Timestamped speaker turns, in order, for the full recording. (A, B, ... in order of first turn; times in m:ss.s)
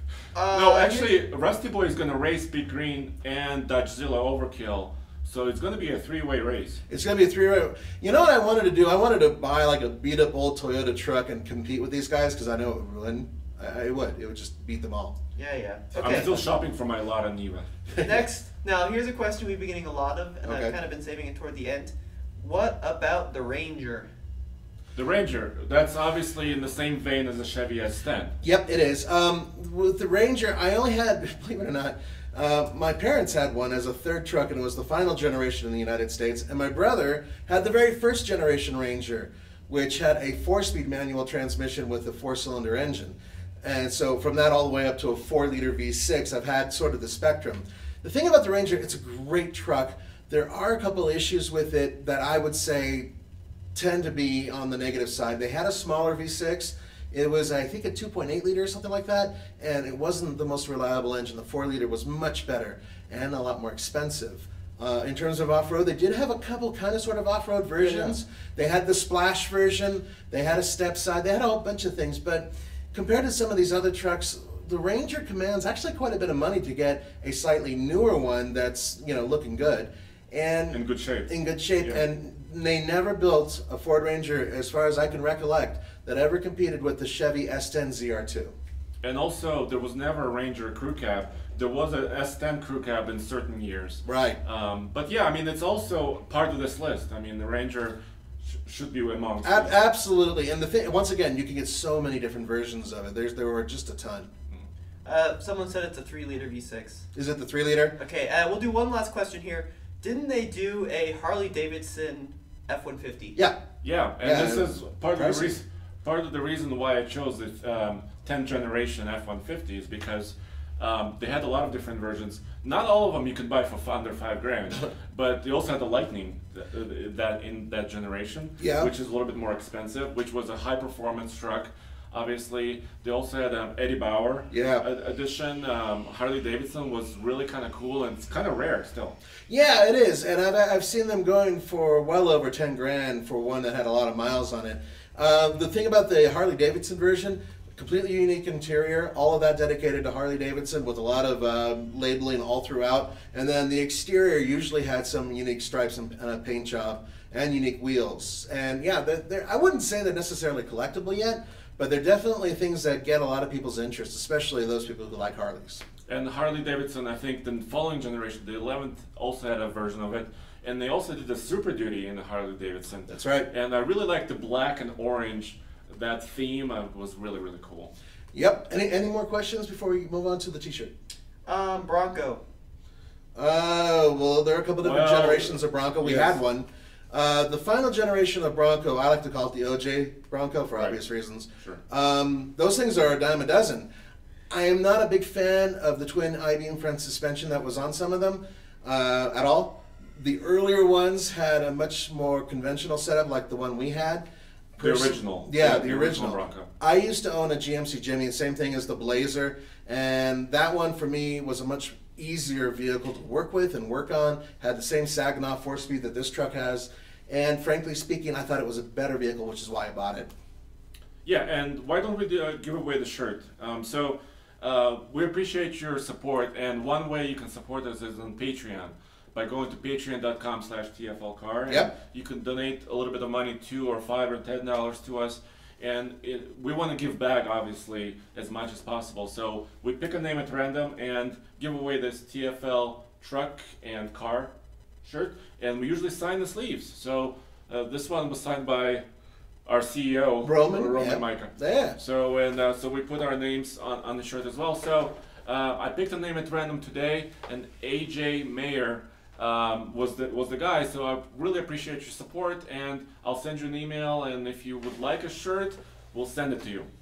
0:00.3-0:01.1 A
0:00.5-0:06.8 B
0:06.9-0:15.2 C
0:15.4-0:16.3 A
0:16.0-0:16.4 C
0:16.0-0:17.7 B
0:17.9-0:18.2 C
0:18.0-0:24.1 A
0:20.4-0:20.7 C
0:25.0-0:28.3 B
0:28.4-0:53.1 C
0:53.7-1:28.5 C
1:20.7-1:22.0 B
1:29.0-1:39.7 B
1:34.0-1:34.4 C
1:39.4-1:44.3 C
1:45.0-1:47.1 A
1:47.1-1:48.0 C
1:48.0-1:53.4 A
1:53.8-2:19.2 B
1:54.2-1:55.5 C
2:08.6-2:08.9 C
2:14.5-2:14.8 C
2:19.5-2:45.8 C
2:46.1-2:57.9 B
2:53.1-2:53.5 C
2:58.3-3:00.9 C
3:01.4-3:02.4 A
3:03.3-3:13.9 C
3:04.8-3:06.4 B
3:14.5-3:24.2 C
3:24.8-3:40.3 C
3:24.8-3:26.7 B
3:41.2-4:04.5 B
4:05.0-4:09.0 B
4:09.6-4:26.9 B
4:10.4-4:12.0 C